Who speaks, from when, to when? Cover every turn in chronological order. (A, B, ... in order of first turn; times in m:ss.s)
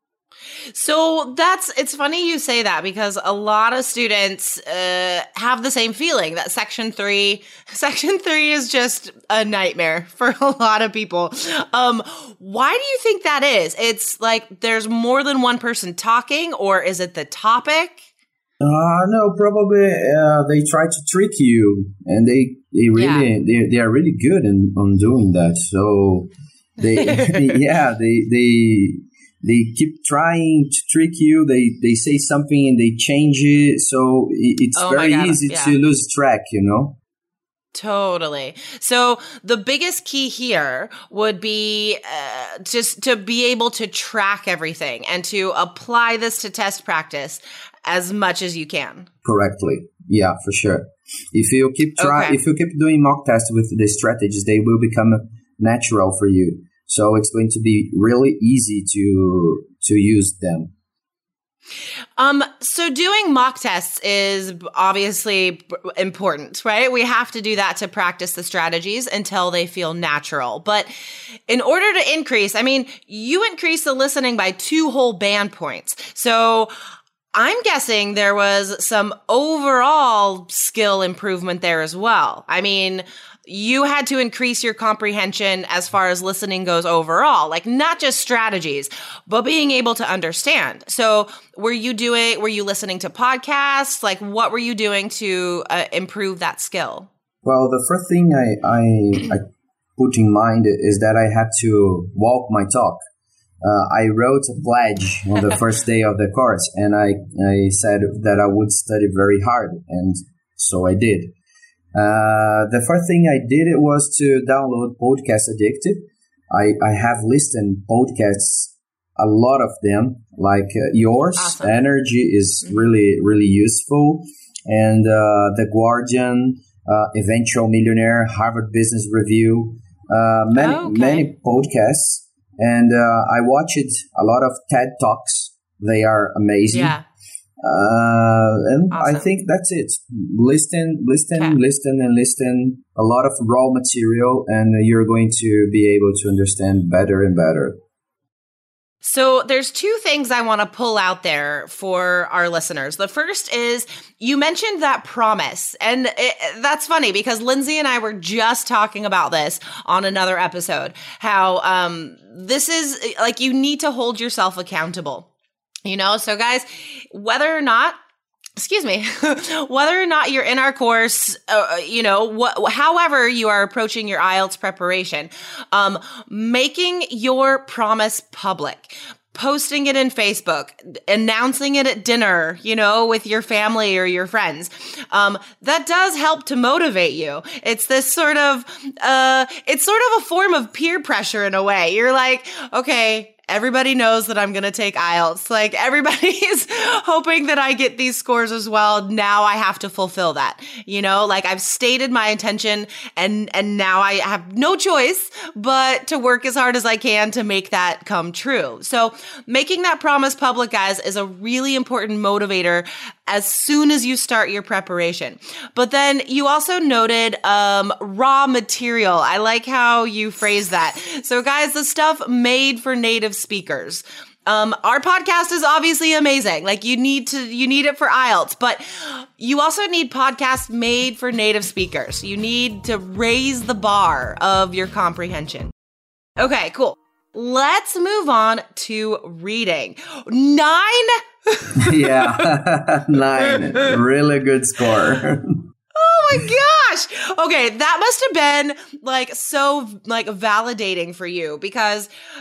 0:00.7-0:18.0 A
0:18.6-0:37.0 B
0:22.9-0:23.3 A
0:26.9-0:27.5 A
0:34.7-0:35.8 A
0:37.7-0:49.1 A
0:49.2-1:00.7 B
0:52.0-0:52.4 A
1:02.2-1:10.9 A
1:11.5-1:16.7 A
1:17.3-1:37.1 A
1:37.4-1:39.4 B
1:40.0-1:43.0 B
1:43.6-1:51.3 B
1:51.9-2:17.0 B
2:01.4-2:01.7 A
2:10.5-2:11.3 A
2:16.7-2:17.0 A
2:17.6-2:27.8 B
2:18.9-2:19.3 A
2:29.0-2:45.3 A
2:45.8-2:48.0 A
2:48.6-3:55.7 A
3:56.4-4:02.5 A
4:01.8-4:05.6 B
4:03.4-4:03.9 A
4:05.9-4:12.1 A